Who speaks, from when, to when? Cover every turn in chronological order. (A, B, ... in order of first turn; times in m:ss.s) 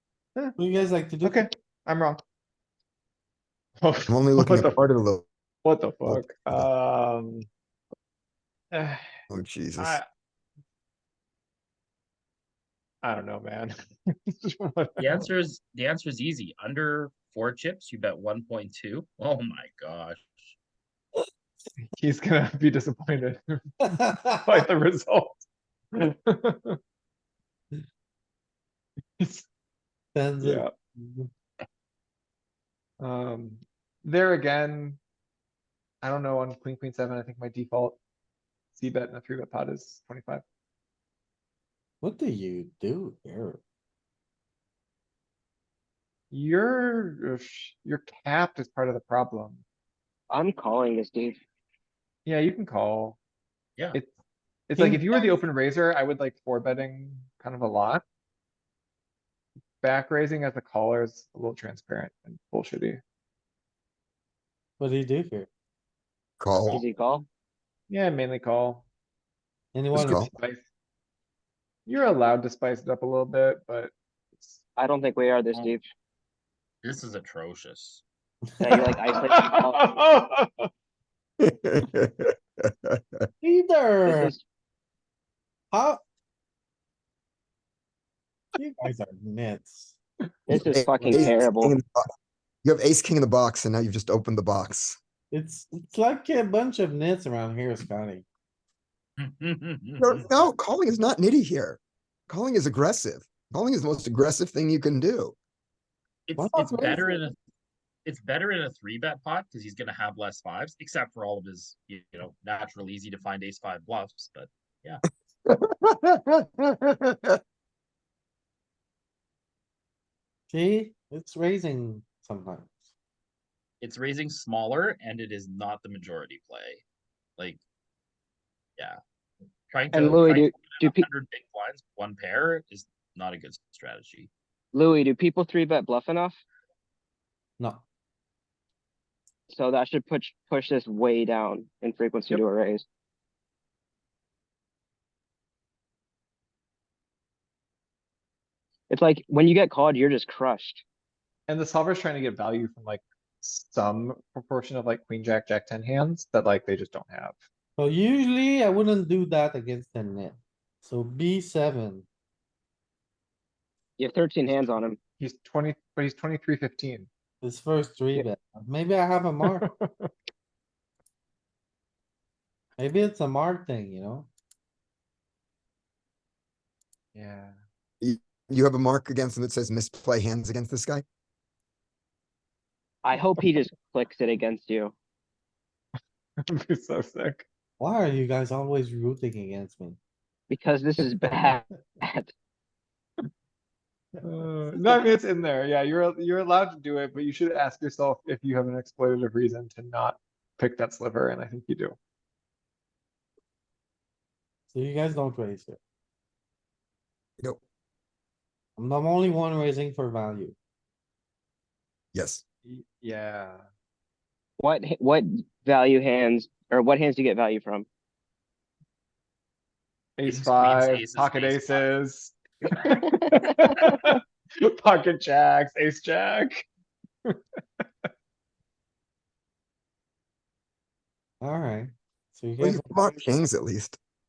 0:00.6-0:01.4 A
0:01.2-0:02.2 B
0:03.8-0:04.8 B
0:04.1-0:05.2 C
0:05.6-0:07.4 B
0:06.0-0:06.7 C
0:08.7-0:09.0 B
0:09.3-0:10.0 C
0:09.8-0:10.0 B
0:13.0-0:13.7 B
0:14.3-0:15.2 B
0:15.0-0:20.5 D
0:21.9-0:25.4 B
0:25.9-0:26.8 B
0:29.2-0:29.4 B
0:30.1-0:31.3 A
0:30.4-0:30.7 B
0:33.0-0:35.0 B
0:36.0-0:38.0 B
0:38.7-0:40.4 B
0:42.0-0:43.6 A
0:46.3-0:49.6 B
0:50.3-0:51.4 E
0:52.2-0:53.2 B
0:54.7-0:58.0 B
0:54.8-0:55.4 A
0:59.8-1:03.0 B
1:04.8-1:05.5 A
1:06.4-1:06.8 C
1:06.5-1:06.8 D
1:06.7-1:07.2 E
1:07.9-1:08.8 B
1:09.7-1:10.2 A
1:09.9-1:10.3 C
1:10.0-1:10.6 B
1:11.8-1:14.6 B
1:14.8-1:15.8 E
1:15.5-1:15.8 D
1:16.8-1:18.0 D
1:18.6-1:18.9 A
1:18.6-1:19.8 E
1:18.8-1:20.7 B
1:21.4-1:23.2 C
1:23.4-1:24.3 A
1:24.0-1:24.4 E
1:25.7-1:26.0 A
1:28.6-1:30.0 A
1:30.5-1:31.8 E
1:30.5-1:32.1 C
1:31.0-1:31.4 A
1:32.6-1:35.0 C
1:35.3-1:38.2 A
1:39.2-1:40.5 D
1:40.0-1:45.4 C
1:46.3-1:47.4 D
1:46.4-1:47.2 A
1:48.0-1:55.0 D
1:55.5-1:57.3 C
2:00.5-2:02.8 A
2:03.8-2:06.8 D
2:09.7-2:14.3 D
2:09.9-2:11.0 E
2:14.7-2:16.4 E
2:17.6-2:17.8 A
2:19.5-2:22.8 E
2:28.9-2:30.8 E
2:31.5-2:37.4 B
2:37.8-2:42.1 A
2:44.0-2:45.0 E
2:45.2-2:47.1 B
2:47.4-2:49.6 A
2:49.4-2:50.1 B
2:52.8-2:54.3 A
2:57.1-2:57.5 B
2:58.0-3:01.0 C
3:03.0-3:04.9 E
3:06.4-3:07.4 B
3:07.8-3:10.0 A
3:10.5-3:12.3 E
3:14.2-3:22.0 B
3:24.7-3:25.8 A
3:28.8-3:30.6 A
3:32.1-3:32.4 C
3:32.6-3:33.6 B
3:34.6-3:37.9 E
3:40.2-3:46.6 B
3:40.3-3:41.9 D
3:51.4-3:53.4 A
3:52.6-3:54.0 C